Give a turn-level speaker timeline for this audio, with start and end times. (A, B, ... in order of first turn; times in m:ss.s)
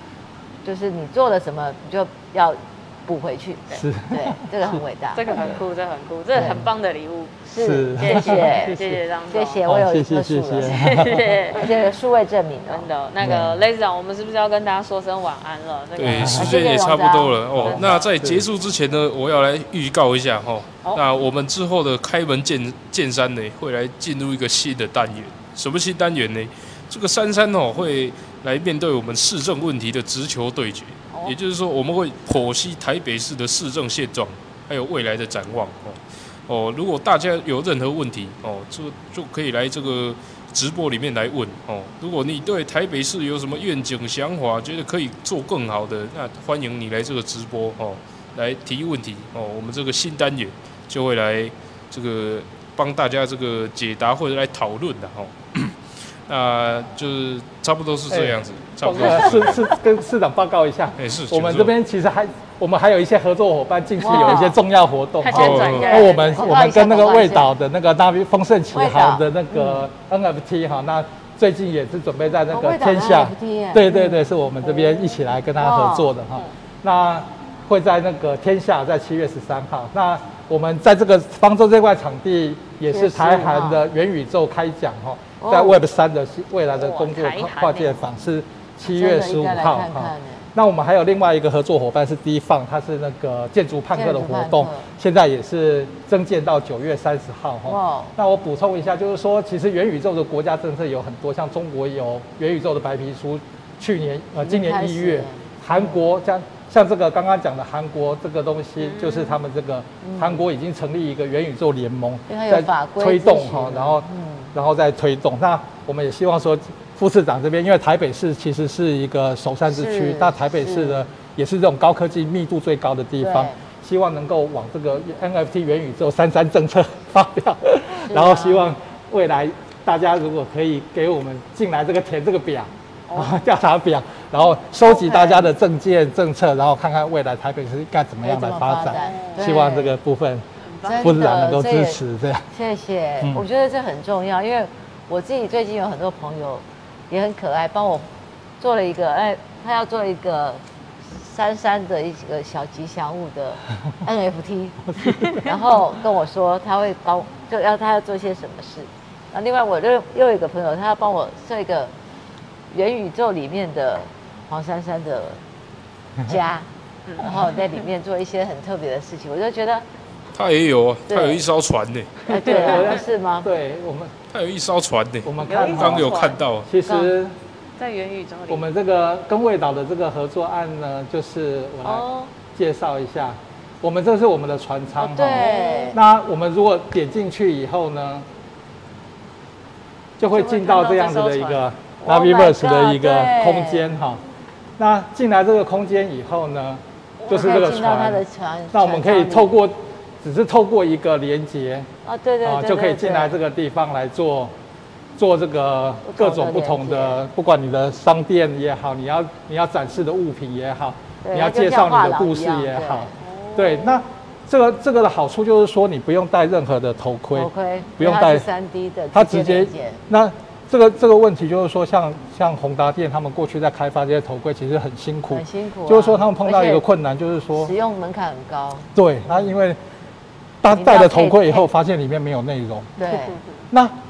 0:00.6-0:05.4 A
0:03.7-0:04.8 B
0:05.1-0:07.3 C
0:07.5-0:12.9 A
0:07.6-0:09.0 B
0:08.0-0:09.6 C
0:09.6-0:11.3 B
0:10.6-0:11.8 C
0:12.7-0:16.8 C
0:13.2-0:13.6 B
0:16.0-0:59.7 D
0:16.0-0:16.6 B
0:16.2-0:17.8 A
0:17.5-0:18.5 B
0:17.6-0:18.1 C
0:58.1-2:20.5 B
1:01.0-1:01.7 D
1:04.0-1:04.6 A
1:05.2-1:06.6 C
1:05.3-1:06.1 D
1:05.3-1:07.5 A
1:08.7-1:09.8 A
1:12.5-1:16.2 A
1:22.9-1:23.8 A
1:25.4-1:25.8 A
1:26.8-1:28.0 C
1:28.9-1:30.5 A
1:33.9-1:34.8 A
1:37.7-1:38.2 A
1:44.4-1:46.0 A
1:48.8-1:49.4 C
1:50.0-1:50.4 A
1:52.3-1:54.5 A
1:59.7-2:01.1 A
2:03.2-2:03.6 A
2:08.0-2:08.7 A
2:13.1-2:13.4 C
2:14.8-2:15.5 A
2:18.2-2:20.0 A
2:18.9-2:19.6 C
2:20.7-2:21.2 C
2:20.8-2:22.0 A
2:21.0-2:22.5 B
2:22.5-2:28.1 A
2:28.6-2:41.9 A
2:35.0-2:35.5 B
2:42.7-2:45.4 A
2:46.2-2:49.8 A
2:47.1-2:47.4 C
2:50.4-2:52.3 D
2:51.1-2:51.4 A
2:52.3-2:53.5 A
2:52.4-2:54.2 B
2:54.3-2:56.7 D
2:55.2-2:57.3 B
2:55.4-2:56.4 C
2:56.9-2:57.1 A
2:57.8-2:58.6 C
2:58.5-3:08.3 B
3:01.8-3:02.3 C
3:05.0-3:06.0 A
3:05.4-3:06.0 C
3:10.2-3:14.2 B
3:10.3-3:11.6 C
3:12.0-3:13.9 A
3:14.8-3:21.9 B
3:17.2-3:18.0 C
3:17.3-3:19.6 A
3:22.0-3:23.4 A
3:22.4-3:24.5 B
3:25.2-3:38.5 B
3:26.1-3:27.2 A
3:31.2-3:33.2 A
3:33.2-3:34.0 C
3:37.3-3:40.0 A
3:39.1-3:47.7 B
3:45.3-3:46.8 A
3:47.5-3:49.5 A
3:49.0-3:49.8 B
3:50.6-3:53.0 B
3:50.7-3:51.7 A
3:53.0-3:53.4 A
3:53.0-3:53.6 C
3:53.7-3:54.0 B